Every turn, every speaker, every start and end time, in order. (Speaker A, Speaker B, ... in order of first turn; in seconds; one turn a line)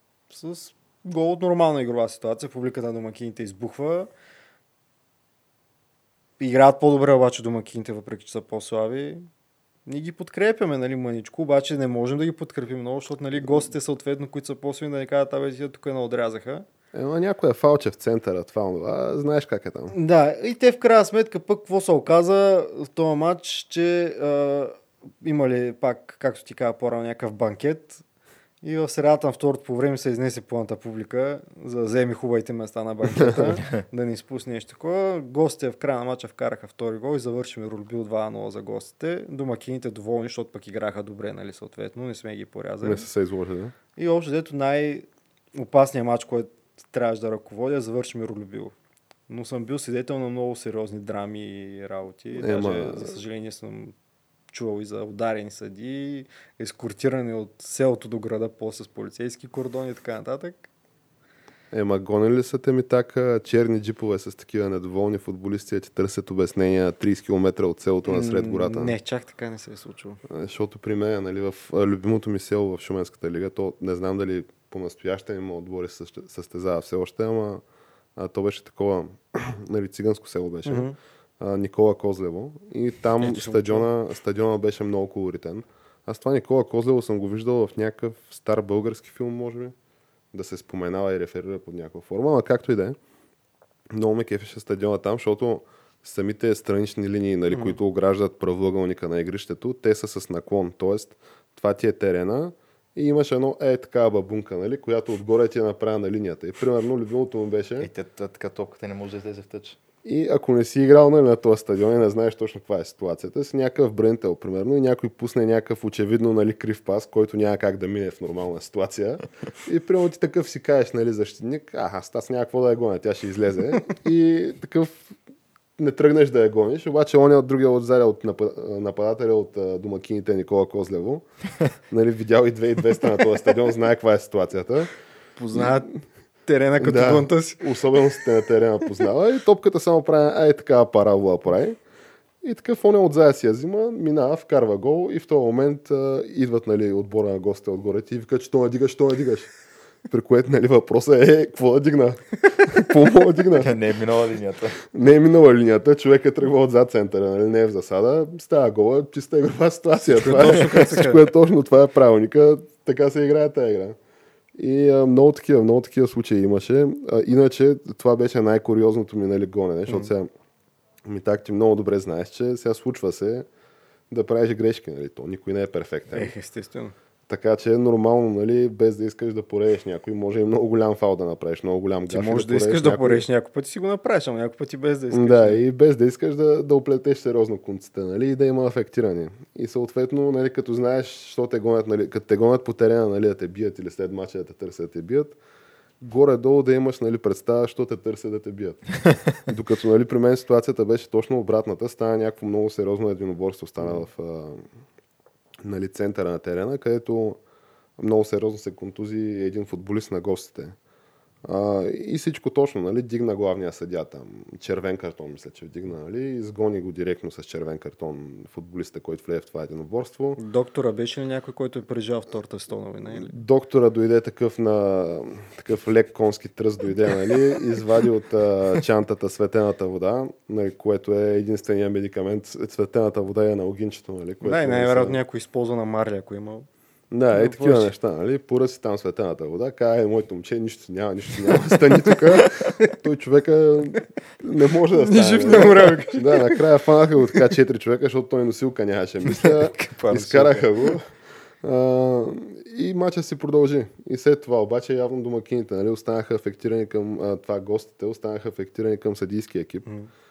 Speaker A: 0.3-4.1
Speaker A: 6.4-9.3
Speaker A: 9.9-16.7
Speaker B: 16.9-19.9
Speaker A: 19.9-28.0
Speaker A: 28.6-43.1
Speaker B: 33.2-33.5
Speaker B: 42.8-43.7
Speaker A: 44.0-48.7
Speaker A: 49.3-53.9
Speaker B: 52.4-53.2
Speaker A: 54.5-60.7
Speaker B: 61.7-69.0
Speaker A: 68.1-70.2
Speaker B: 70.3-77.6
Speaker B: 78.2-89.7
Speaker A: 80.7-81.0
Speaker A: 83.2-83.9
Speaker B: 90.3-93.0
Speaker B: 93.9-107.9
Speaker A: 97.5-97.8
Speaker C: 107.8-109.8
Speaker B: 110.0-125.1
Speaker B: 125.8-131.2
Speaker B: 131.9-134.9
Speaker A: 135.4-137.6
Speaker B: 136.8-141.8
Speaker B: 142.4-149.5
Speaker B: 150.1-153.7
Speaker C: 153.6-154.8
Speaker B: 154.9-164.0
Speaker A: 160.1-161.2
Speaker B: 164.6-170.3
Speaker A: 169.9-170.1
Speaker B: 171.1-173.5
Speaker B: 174.1-176.3
Speaker A: 176.1-176.9
Speaker B: 177.3-183.2
Speaker A: 182.1-185.6
Speaker B: 185.1-195.4
Speaker B: 196.0-204.7
Speaker B: 205.6-207.4
Speaker B: 208.0-210.8
Speaker B: 211.4-220.4
Speaker A: 220.4-223.4
Speaker B: 223.2-235.2
Speaker A: 234.4-236.7
Speaker B: 237.1-251.1
Speaker A: 237.4-237.9
Speaker A: 244.9-246.6
Speaker C: 249.2-250.9
Speaker B: 251.6-259.9